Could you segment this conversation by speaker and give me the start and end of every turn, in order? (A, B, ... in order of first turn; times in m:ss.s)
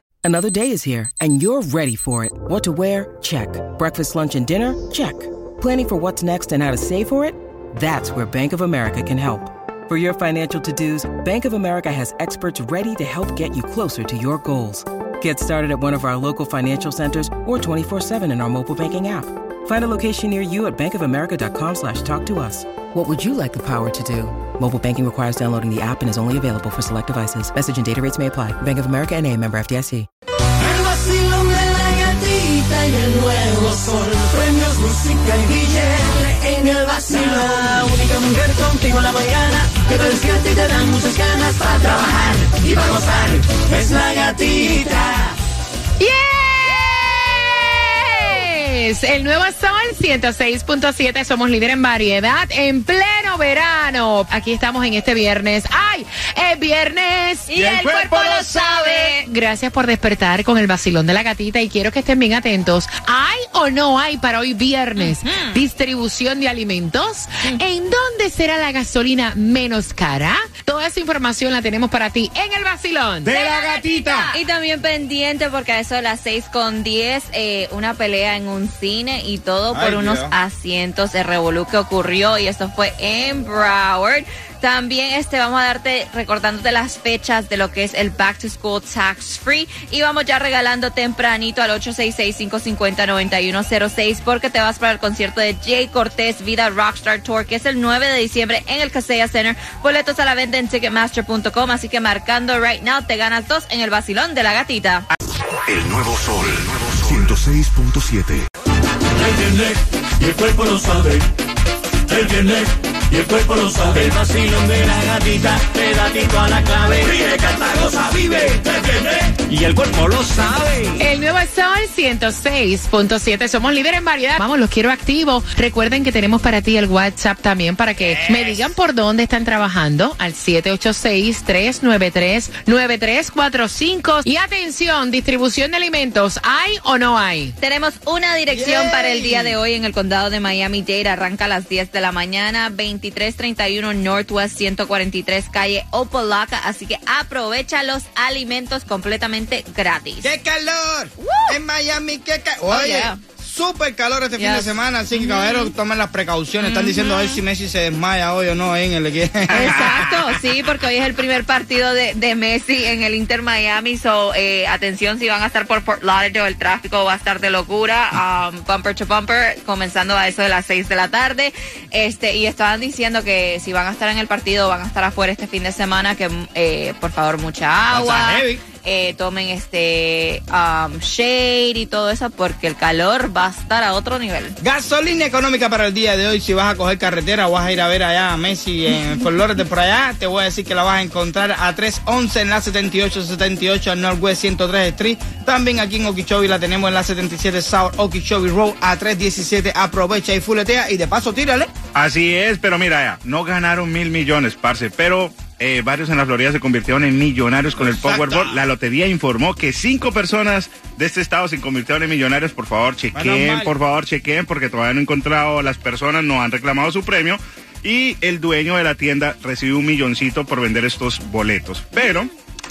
0:00.2-0:30.1 A
0:30.6-0:45.3 B
0:46.0-0:57.5 C
0:57.5-0:59.2 D
0:57.5-0:58.7 E
0:58.3-1:13.3 C
1:05.0-1:05.6 D
1:13.2-1:14.3 E
1:13.3-1:45.1 D
1:19.7-1:20.3 F
1:45.9-1:48.4 G
1:49.2-1:51.2 B
1:52.1-2:01.0 B
2:01.0-2:17.5 C
2:08.0-2:08.7 F
2:17.6-2:30.3 D
2:18.5-2:19.6 F
2:30.2-2:40.1 F
2:31.2-2:31.5 D
2:32.7-2:33.2 D
2:34.4-2:35.7 D
2:36.6-2:37.4 D
2:39.5-3:04.6 D
2:39.6-2:40.1 E
2:57.9-2:58.6 F
3:04.6-3:21.7 F
3:21.9-3:42.3 E
3:27.8-3:28.6 F
3:33.1-3:33.7 F